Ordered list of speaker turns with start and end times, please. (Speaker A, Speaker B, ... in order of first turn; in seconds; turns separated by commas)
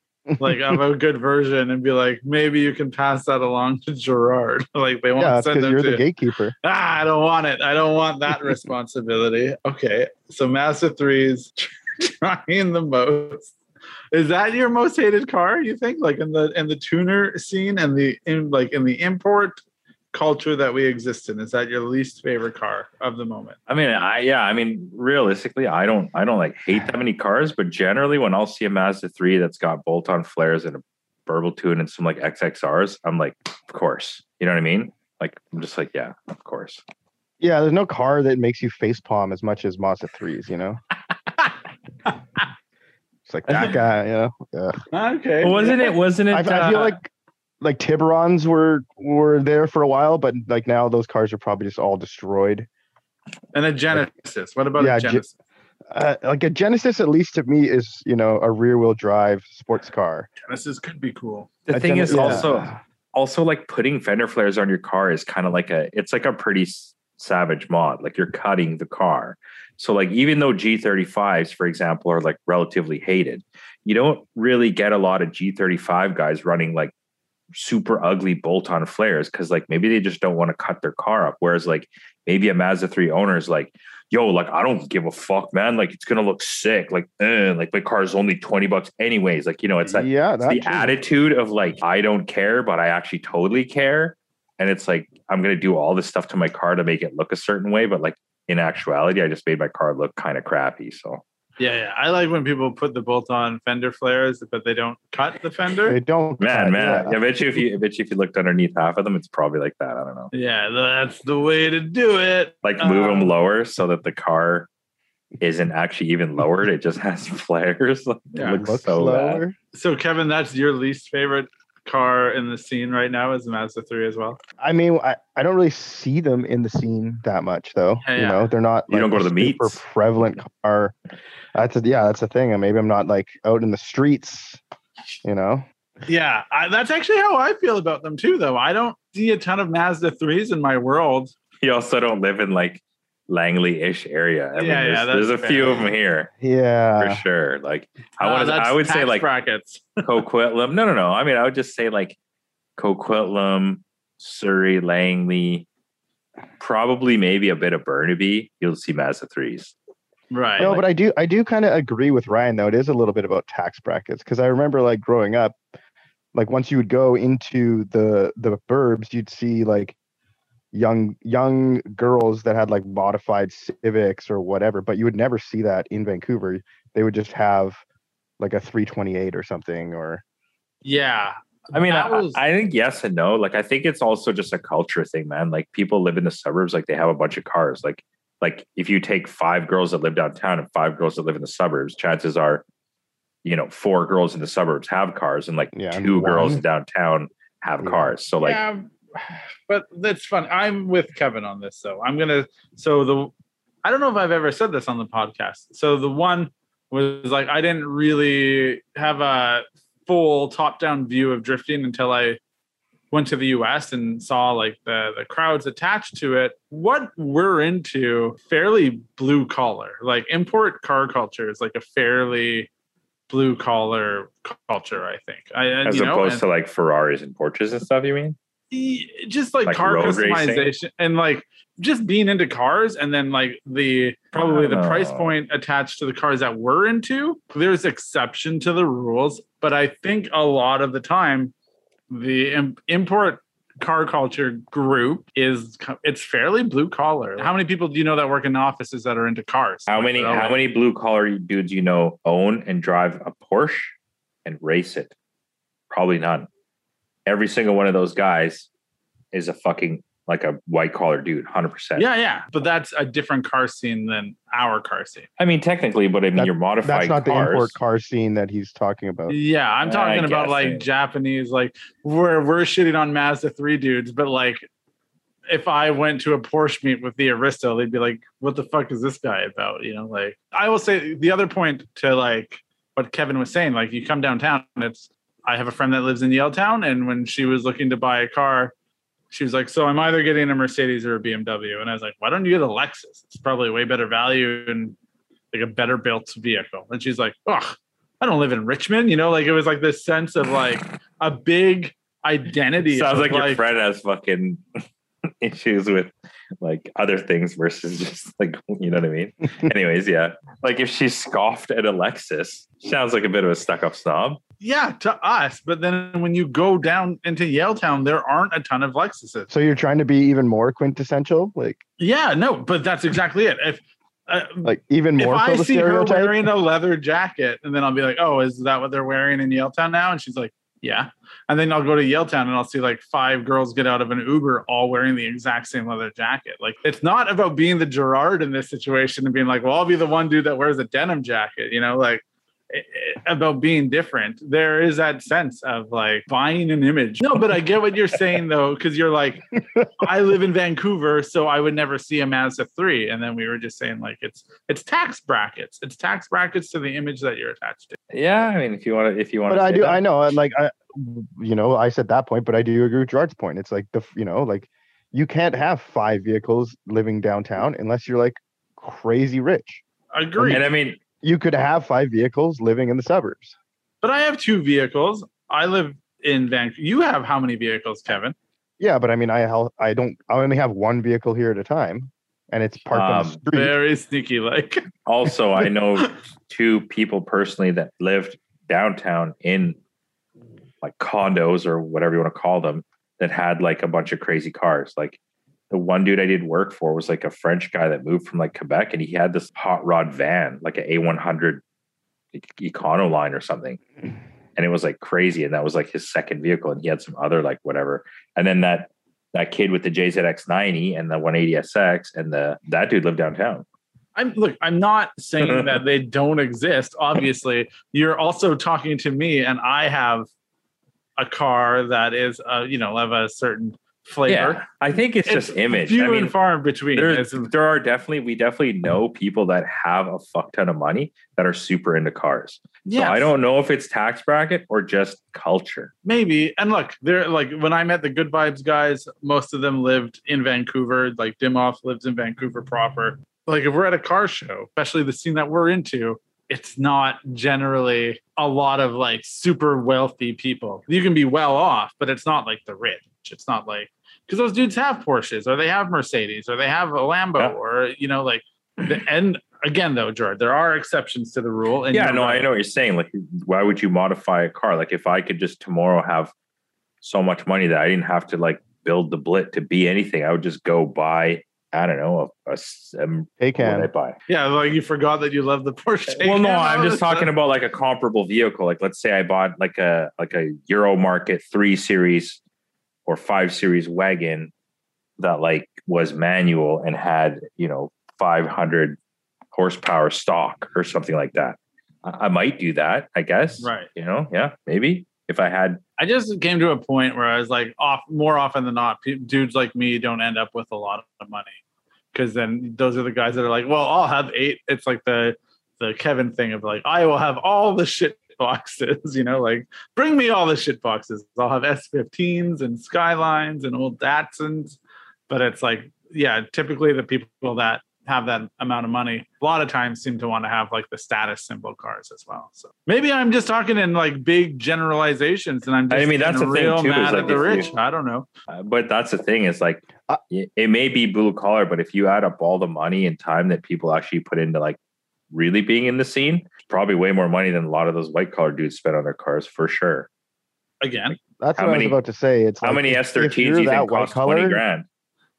Speaker A: 0.4-6.0, Speaker B: 5.2-6.5, Speaker A: 6.6-13.5, Speaker A: 14.1-19.6, Speaker A: 20.1-23.6, Speaker C: 23.7-36.8, Speaker B: 37.4-40.8, Speaker A: 42.0-42.5, Speaker B: 43.3-44.8, Speaker A: 44.9-45.9, Speaker C: 45.4-47.0, Speaker B: 46.3-47.1, Speaker B: 47.6-52.7, Speaker A: 53.5-55.3, Speaker B: 54.8-55.2, Speaker B: 55.9-60.3, Speaker A: 60.5-61.5, Speaker C: 61.7-76.9, Speaker B: 61.7-62.8, Speaker A: 62.1-62.4, Speaker C: 77.5-101.2, Speaker B: 89.8-91.0, Speaker A: 101.6-106.0, Speaker B: 105.9-107.2, Speaker C: 106.4-110.3, Speaker A: 110.3-113.3, Speaker C: 112.6-114.7, Speaker C: 115.4-119.4, Speaker A: 118.3-118.6, Speaker B: 118.5-119.5, Speaker A: 119.7-124.4, Speaker B: 124.6-130.9, Speaker A: 128.0-128.5, Speaker C: 128.9-129.8, Speaker B: 131.5-134.6, Speaker B: 135.2-135.7, Speaker A: 136.1-141.3, Speaker C: 141.6-146.3, Speaker A: 144.6-145.8, Speaker B: 146.4-147.2, Speaker C: 147.0-149.2, Speaker A: 148.2-150.1, Speaker C: 150.0-152.2, Speaker C: 152.8-155.7, Speaker C: 156.6-159.7, Speaker A: 160.3-160.8, Speaker B: 160.6-165.6, Speaker B: 166.3-169.9, Speaker B: 170.7-177.8, Speaker B: 178.4-180.2, Speaker A: 180.8-182.4, Speaker C: 181.7-192.6, Speaker C: 193.4-198.6, Speaker B: 195.7-196.6, Speaker B: 197.8-198.1, Speaker A: 198.4-203.3, Speaker A: 203.8-212.4, Speaker A: 213.1-222.7, Speaker A: 223.3-226.4, Speaker C: 225.8-228.3, Speaker A: 228.7-241.5, Speaker C: 229.6-230.7, Speaker C: 234.3-235.3, Speaker A: 242.1-250.6, Speaker C: 249.9-255.1, Speaker C: 255.9-256.5, Speaker C: 257.2-258.7, Speaker C: 259.3-262.1, Speaker A: 261.9-265.3, Speaker C: 265.4-267.7, Speaker B: 266.3-269.4, Speaker A: 269.3-274.6, Speaker C: 269.8-270.9, Speaker A: 275.5-288.7, Speaker A: 289.3-294.9, Speaker A: 295.5-303.6, Speaker C: 302.8-304.6, Speaker C: 305.4-314.4, Speaker A: 314.6-319.5, Speaker B: 319.5-321.8, Speaker A: 322.0-358.0, Speaker B: 324.6-326.4, Speaker C: 358.1-360.0, Speaker B: 359.5-369.8, Speaker A: 370.1-370.6, Speaker B: 370.4-370.6, Speaker C: 370.5-371.0, Speaker B: 371.2-373.6, Speaker A: 374.0-378.3, Speaker B: 378.8-383.8, Speaker C: 382.9-383.4, Speaker A: 383.5-384.9, Speaker C: 385.1-389.8, Speaker C: 390.8-395.2, Speaker C: 395.7-401.6, Speaker C: 402.3-403.8, Speaker C: 404.6-413.6, Speaker A: 414.1-420.3, Speaker C: 415.4-415.8, Speaker A: 421.2-424.6, Speaker C: 424.3-426.3, Speaker A: 425.2-427.5, Speaker C: 426.9-435.9, Speaker A: 432.9-433.3, Speaker A: 436.0-462.5, Speaker C: 461.9-466.3, Speaker C: 467.0-474.2, Speaker B: 473.4-473.9, Speaker A: 474.3-477.3, Speaker C: 476.2-482.4, Speaker C: 483.1-484.5, Speaker C: 485.2-489.0, Speaker C: 489.5-495.8, Speaker A: 493.6-493.9, Speaker A: 496.0-501.6, Speaker A: 502.1-514.8, Speaker A: 515.3-528.3, Speaker C: 525.9-527.7, Speaker C: 528.5-534.8, Speaker C: 535.3-540.1, Speaker A: 540.8-541.2, Speaker B: 541.4-544.6, Speaker C: 541.5-542.0, Speaker C: 542.6-544.9